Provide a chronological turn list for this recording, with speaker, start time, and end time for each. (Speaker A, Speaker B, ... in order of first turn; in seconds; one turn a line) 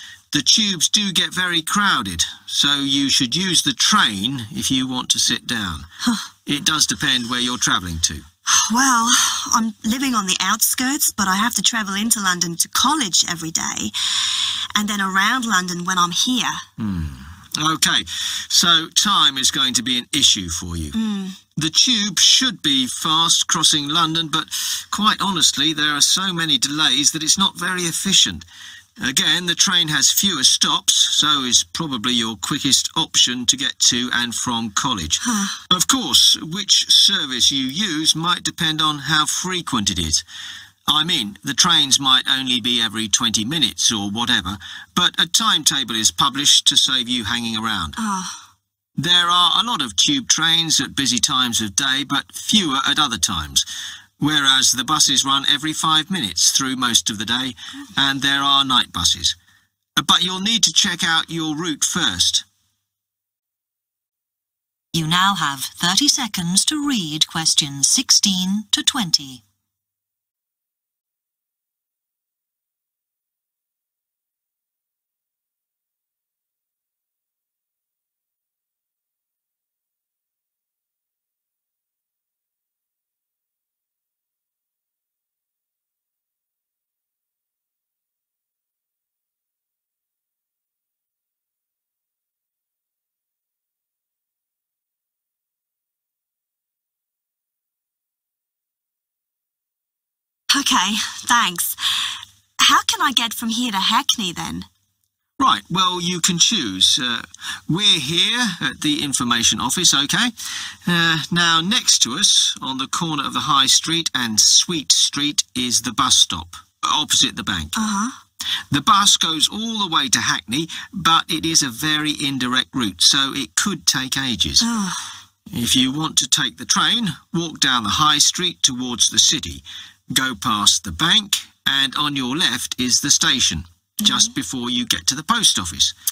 Speaker A: 0.3-5.9
Speaker A: 6.5-8.2
Speaker B: 8.5-16.6
Speaker A: 16.8-20.9
Speaker B: 20.9-21.4
Speaker A: 21.6-28.4
Speaker A: 29.0-40.2
Speaker B: 35.2-35.6
Speaker A: 40.9-48.0
Speaker B: 48.0-48.4
Speaker A: 49.0-53.6
Speaker A: 54.2-59.3
Speaker A: 60.0-62.4
Speaker C: 64.9-69.4
Speaker B: 100.5-101.8
Speaker B: 102.6-104.7
Speaker A: 105.4-110.3
Speaker A: 110.8-117.8
Speaker B: 117.8-118.1
Speaker A: 118.7-124.7
Speaker B: 124.6-125.1
Speaker A: 125.5-135.9
Speaker B: 134.0-134.3